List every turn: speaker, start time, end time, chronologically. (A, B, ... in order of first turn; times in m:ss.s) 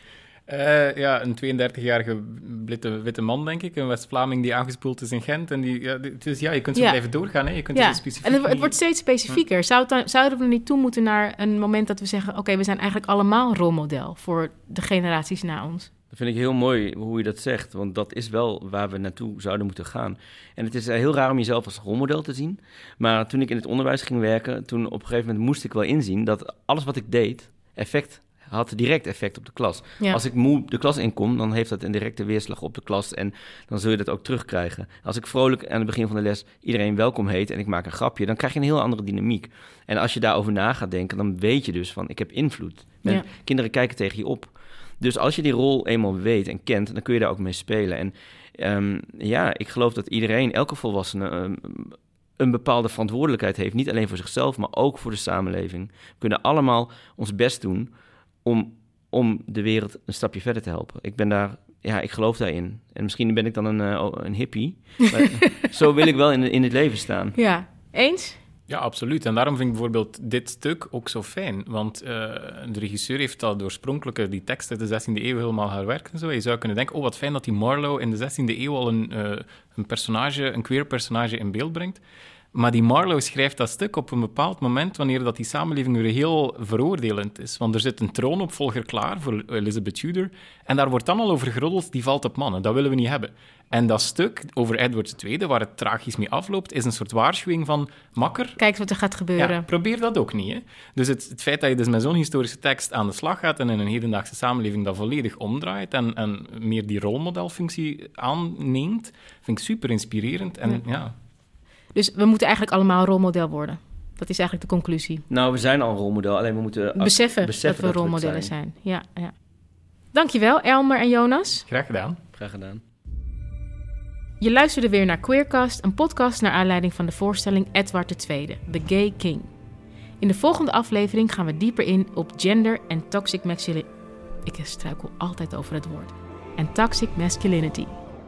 0:00.5-0:08.7 A
0:06.7-0:15.9 B
0:16.1-0:57.9 C
0:58.4-1:07.4 C
1:07.3-1:08.4 B
1:08.7-1:22.0 A
1:22.5-1:38.6 A
1:38.6-1:39.6 B
1:39.4-1:51.1 A
1:51.9-1:55.2 B
1:55.3-1:58.5 C
1:57.0-1:59.3 B
2:00.1-2:01.6 B
2:01.7-2:02.2 A
2:02.3-2:02.8 C
2:04.4-2:09.5 B
2:10.2-2:13.9 B
2:14.4-2:18.0 B